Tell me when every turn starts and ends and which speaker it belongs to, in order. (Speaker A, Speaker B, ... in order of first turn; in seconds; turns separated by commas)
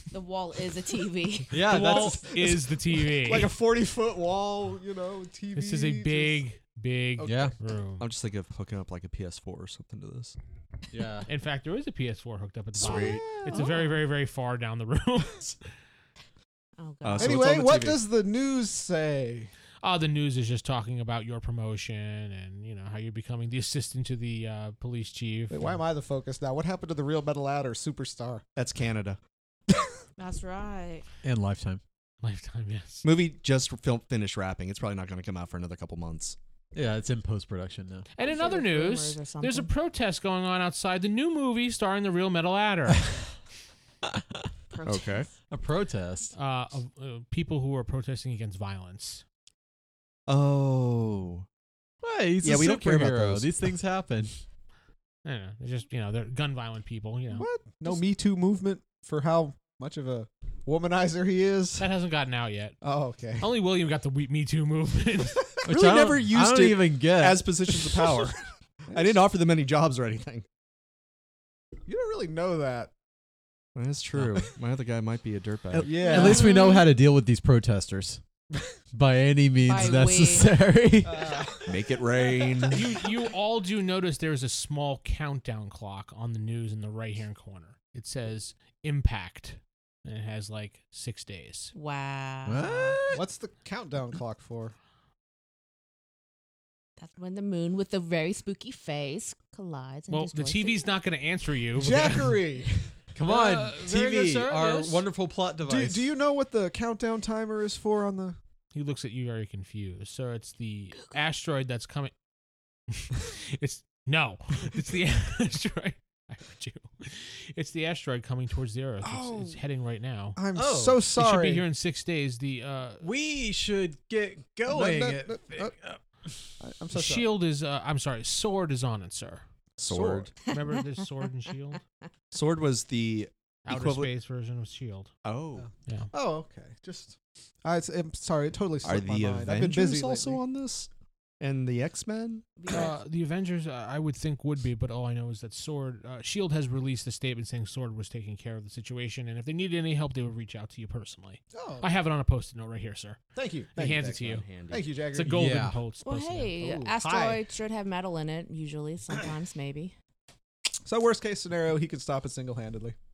Speaker A: 0.1-1.6, Speaker B: 1.5-2.4, Speaker C: 1.5-3.5, Speaker D: 2.0-6.4, Speaker C: 5.5-8.1, Speaker D: 7.2-7.5, Speaker B: 7.2-7.5, Speaker E: 8.0-10.4, Speaker B: 10.9-11.3, Speaker C: 11.3-15.6, Speaker E: 12.8-13.3, Speaker D: 12.8-13.9, Speaker A: 16.8-17.4, Speaker E: 17.0-18.1, Speaker D: 17.2-19.5, Speaker C: 19.8-25.8, Speaker D: 25.5-28.4, Speaker E: 28.6-29.2, Speaker A: 30.2-31.1, Speaker B: 31.2-31.8, Speaker C: 32.2-33.1, Speaker E: 33.0-36.4, Speaker B: 36.7-38.1, Speaker C: 38.2-43.1, Speaker A: 38.2-39.7, Speaker B: 44.0-44.5, Speaker A: 44.7-45.3, Speaker E: 44.9-45.3, Speaker B: 45.5-46.3, Speaker C: 46.3-49.2, Speaker E: 50.3-51.5, Speaker B: 52.0-54.4, Speaker E: 52.4-53.5, Speaker C: 55.2-57.5, Speaker D: 57.3-61.9, Speaker C: 61.8-62.8, Speaker D: 62.8-63.5, Speaker C: 63.4-65.5, Speaker B: 65.7-67.7, Speaker E: 65.7-68.4, Speaker E: 68.9-70.5, Speaker D: 68.9-69.2, Speaker D: 71.9-72.9, Speaker E: 73.8-76.0, Speaker B: 74.2-74.4, Speaker B: 75.7-78.2, Speaker D: 75.8-76.6, Speaker A: 76.0-76.9, Speaker B: 78.9-81.5, Speaker A: 79.6-80.5, Speaker D: 81.0-82.8, Speaker E: 81.7-82.9, Speaker C: 82.7-91.7, Speaker A: 91.7-93.0, Speaker B: 92.5-93.2, Speaker D: 93.1-94.8, Speaker A: 97.0-100.9, Speaker C: 100.1-102.4, Speaker D: 101.8-102.9, Speaker B: 103.2-106.1, Speaker C: 103.2-105.0, Speaker D: 105.7-108.4, Speaker C: 108.7-112.1, Speaker C: 112.9-120.4, Speaker D: 119.0-119.6, Speaker D: 120.4-121.6, Speaker B: 120.5-121.0, Speaker C: 121.2-123.0, Speaker B: 123.0-126.5, Speaker D: 124.7-125.8, Speaker D: 126.6-127.3, Speaker C: 126.9-129.4, Speaker E: 129.8-130.3, Speaker D: 129.8-130.3, Speaker C: 130.4-131.8, Speaker E: 132.3-134.1, Speaker C: 133.7-135.1, Speaker E: 135.2-135.7, Speaker D: 135.6-140.4, Speaker E: 138.8-140.9, Speaker E: 141.4-142.5, Speaker A: 142.6-143.0, Speaker C: 142.7-153.2, Speaker D: 151.5-151.9, Speaker D: 153.4-155.3, Speaker C: 153.8-154.5, Speaker E: 154.2-154.9, Speaker C: 155.1-156.5, Speaker B: 155.2-155.8, Speaker A: 156.0-159.9, Speaker D: 156.6-157.4, Speaker D: 160.9-163.0